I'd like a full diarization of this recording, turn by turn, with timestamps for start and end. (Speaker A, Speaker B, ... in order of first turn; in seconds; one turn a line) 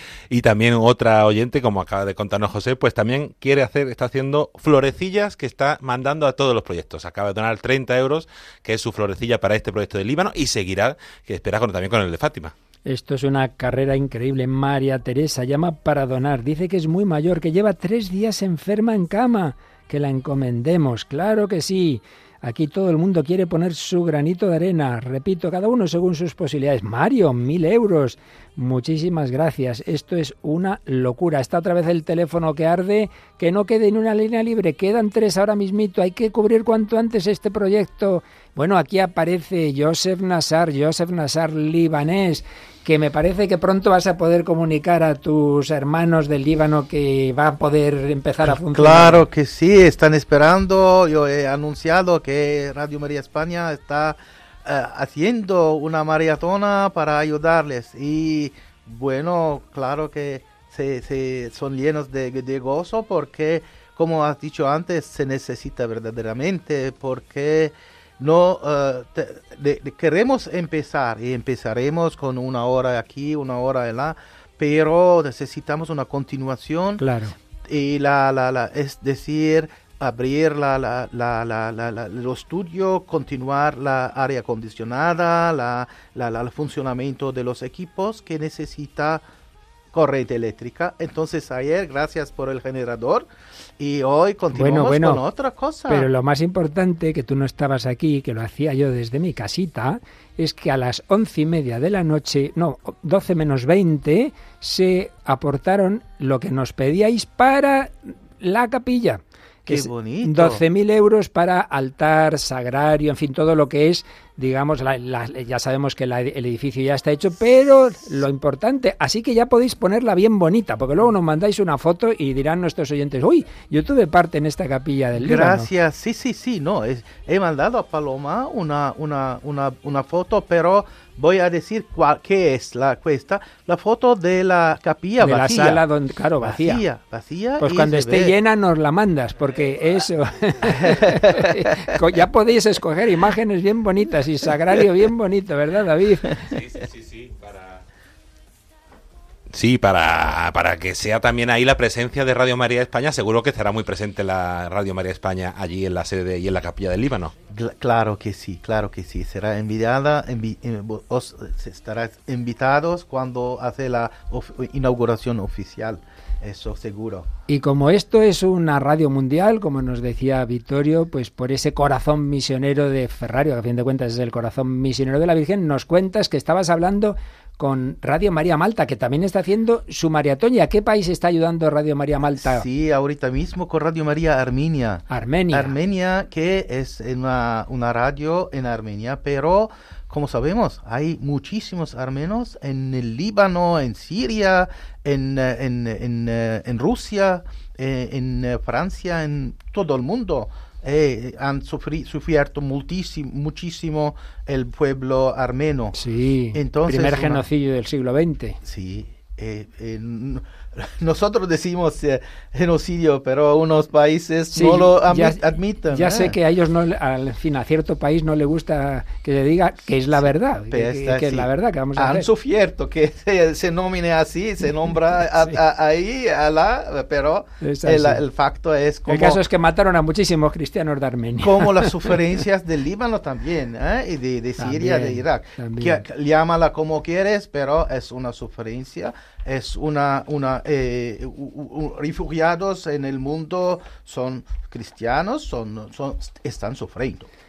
Speaker A: 0.3-12.5
Speaker B: 12.8-49.2
Speaker C: 48.4-77.0
Speaker B: 77.0-77.3
Speaker C: 77.6-89.2
Speaker C: 89.9-93.3
Speaker C: 93.8-96.1
Speaker B: 94.5-95.2
Speaker B: 95.9-125.7
Speaker C: 109.7-110.6
Speaker C: 125.1-135.8
Speaker B: 135.2-136.8
Speaker C: 136.4-138.3
Speaker B: 137.6-146.3
Speaker C: 140.9-141.9
Speaker A: 146.5-147.8
Speaker A: 149.5-157.3
Speaker C: 157.5-167.3
Speaker B: 167.5-182.7
Speaker C: 182.4-206.0
Speaker B: 185.1-185.7
Speaker B: 205.9-208.6
Speaker C: 206.5-207.4
Speaker C: 208.6-216.3
Speaker B: 214.5-222.3
Speaker C: 220.7-229.4
Speaker B: 227.6-228.2
Speaker B: 229.1-232.2
Speaker C: 231.4-247.3
Speaker B: 234.6-236.0